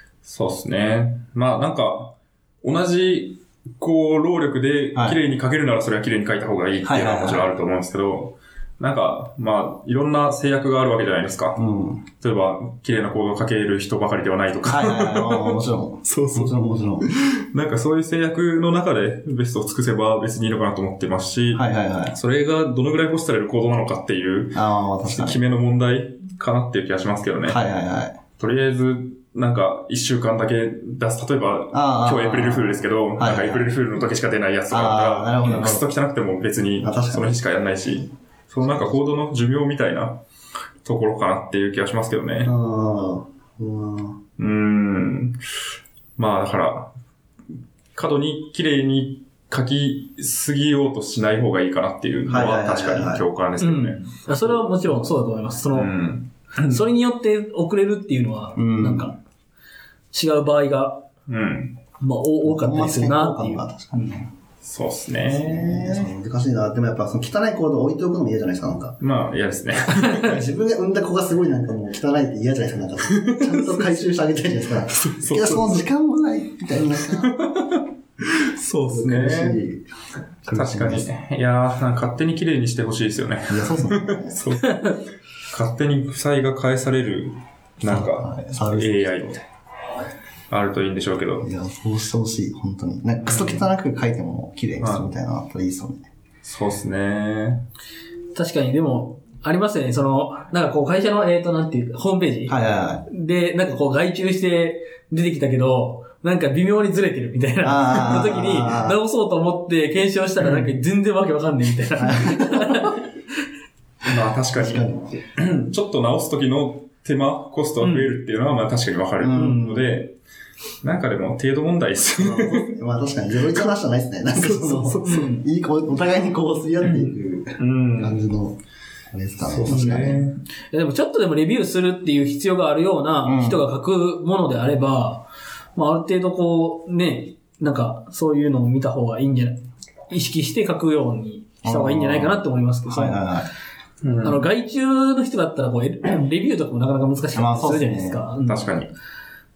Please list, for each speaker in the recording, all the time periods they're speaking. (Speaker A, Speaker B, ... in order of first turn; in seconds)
Speaker A: 0.2-11.6, 12.2-27.6, 28.4-40.2, 40.8-42.5, 44.4-45.4, 46.2-46.9, 47.9-54.5, 55.7-56.8, 61.3-61.8, 64.6-66.1, 69.0-70.4, 73.1-73.9, 74.9-75.8, 77.0-79.6, 80.5-89.4, 90.5-91.5, 93.2-93.7, 94.8-95.0, 96.4-97.6, 114.0-120.1, 120.8-122.7, 126.8-128.2, 129.4-130.4, 144.0-144.4, 148.4-148.9
Speaker B: 4.9-5.2, 6.8-7.5, 11.6-12.0, 14.6-17.1, 21.5-22.1, 24.5-25.4, 27.4-28.2, 31.7-33.7, 34.7-35.9, 36.8-37.3, 38.6-39.0, 42.4-44.2, 52.3-53.2, 58.5-59.1, 62.4-64.3, 65.3-69.0, 70.1-77.3, 78.9-79.8, 80.4-81.1, 83.5-84.4, 87.8-89.4, 91.4-96.1, 102.5-103.0, 107.6-109.0, 112.0-112.9, 114.5-115.2, 119.2-119.9, 122.2-128.6, 129.1-130.2, 133.2-133.6, 141.6-143.5, 147.3-148.2
Speaker C: 53.6-55.9, 56.7-59.1, 60.1-61.0, 62.0-63.6, 98.3-102.5, 103.1-113.0, 117.8-118.1, 119.3-119.6, 124.8-125.4, 129.7-130.2, 130.7-139.6, 140.1-143.2, 144.2-148.7